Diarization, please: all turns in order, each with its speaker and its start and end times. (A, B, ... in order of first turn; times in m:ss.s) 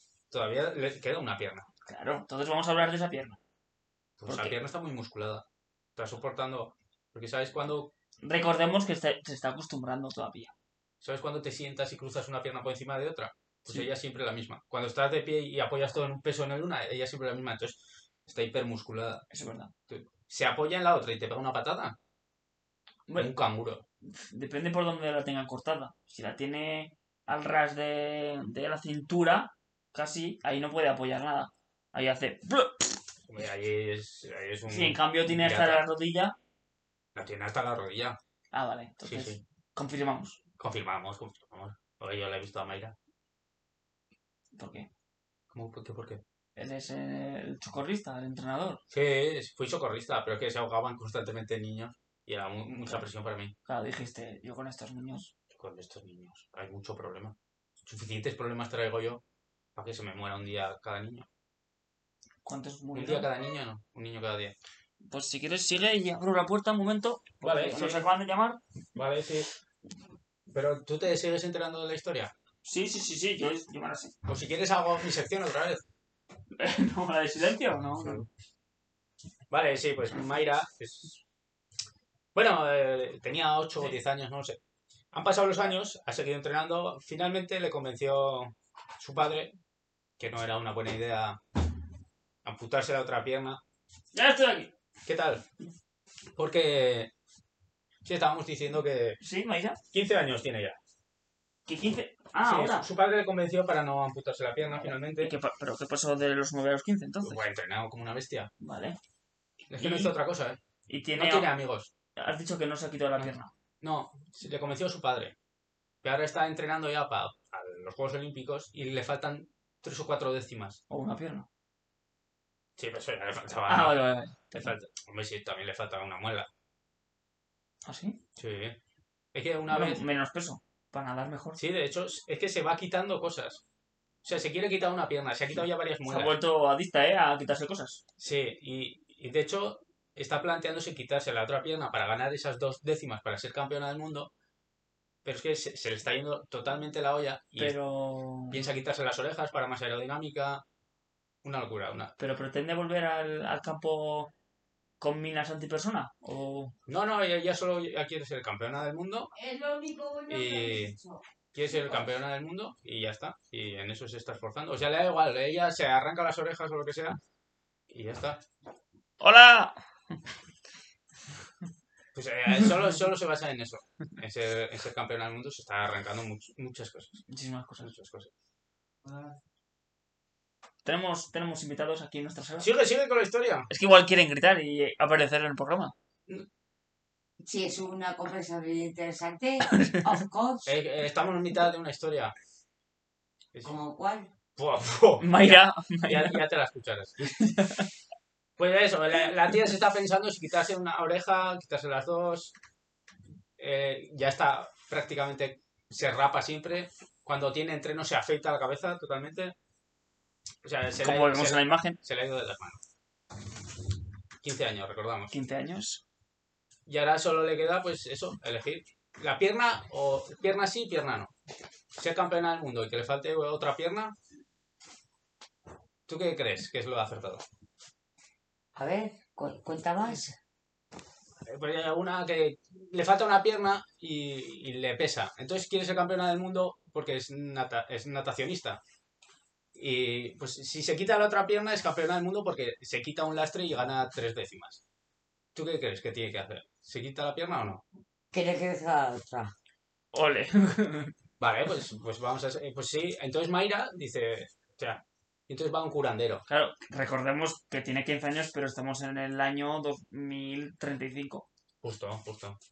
0:00.3-0:01.7 A
0:01.8-0:03.4 B
0:04.2-0:05.4 A
0:04.2-0:04.5 B
0:06.0-0:07.9 A
0:08.2-0:10.5 B
0:11.0-0:19.2 A
0:19.3-0:19.7 B
0:19.9-0:22.0 A
0:23.2-0:23.8 A
0:24.0-0:33.0 B
0:33.3-0:35.8 A
0:34.7-0:36.3 B
0:37.1-0:38.2 A
0:38.5-0:40.4 B
0:39.0-0:39.4 A
0:40.6-0:42.9 A
0:44.5-0:44.9 B
0:45.5-0:46.2 A
0:46.6-0:48.8 B
0:48.9-0:53.5 A
0:53.6-0:55.3 B
0:55.5-0:59.2 A
0:59.8-1:01.3 A
1:02.4-1:03.3 B
1:02.9-1:04.5 A
1:05.0-1:08.6 B
1:07.4-1:08.0 A
1:08.9-1:09.5 A
1:10.5-1:12.3 A
1:12.6-1:14.1 B
1:14.2-1:15.8 A
1:16.5-1:18.2 B
1:18.0-1:18.3 A
1:19.5-1:21.2 A
1:22.3-1:24.6 A
1:25.1-1:29.5 A
1:30.2-1:31.4 A
1:32.4-1:33.6 A
1:34.1-1:34.7 B
1:35.0-1:35.4 A
1:36.4-1:37.1 A
1:38.0-1:39.2 A
1:39.2-1:39.8 B
1:39.9-1:40.8 A
1:41.7-1:42.9 B
1:42.4-1:45.3 A
1:44.8-1:47.4 B
1:47.2-1:48.5 A
1:48.6-1:49.0 B
1:49.7-1:50.6 A
1:49.8-1:50.1 B
1:50.9-1:51.5 B
1:51.2-1:51.9 A
1:52.2-1:53.5 B
1:53.2-1:55.3 A
1:56.0-2:00.8 A
2:00.9-2:01.5 B
2:02.8-2:04.0 A
2:03.7-2:04.7 B
2:04.6-2:06.5 A
2:07.8-2:08.2 B
2:08.4-2:08.8 A
2:09.3-2:10.0 A
2:09.7-2:11.6 B
2:11.6-2:13.6 A
2:14.2-2:16.3 A
2:16.1-2:18.0 B
2:18.2-2:24.3 A
2:25.2-2:27.7 A
2:27.6-2:28.6 B
2:28.5-2:30.6 A
2:31.4-2:32.1 A
2:32.2-2:34.3 B
2:35.0-2:36.7 B
2:36.9-2:39.3 A
2:39.3-2:42.1 C
2:40.3-2:41.0 A
2:41.5-2:47.2 A
2:47.9-2:48.4 A
2:49.2-2:49.8 B
2:52.1-2:57.2 A
2:57.3-2:57.9 B
2:57.8-2:58.3 A
3:00.8-3:02.7 B
3:02.6-3:03.7 A
3:03.7-3:05.9 B
3:07.4-3:10.7 C
3:09.7-3:10.2 B
3:10.6-3:12.3 A
3:13.6-3:14.3 C
3:14.6-3:17.5 A
3:15.2-3:16.4 B
3:17.2-3:17.9 B
3:18.6-3:22.5 A
3:23.6-3:29.5 A
3:30.6-3:32.8 A
3:31.0-3:32.0 B
3:34.4-3:35.3 A
3:35.3-3:36.0 B
3:36.9-3:41.3 A
3:41.9-3:44.1 A
3:46.1-3:47.4 A
3:48.7-3:50.4 C
3:51.4-3:58.8 A
3:59.7-4:04.8 A
4:05.5-4:07.8 A
4:08.3-4:09.5 C
4:10.1-4:11.1 B
4:11.4-4:16.4 A
4:16.5-4:21.5 B
4:21.8-4:22.6 A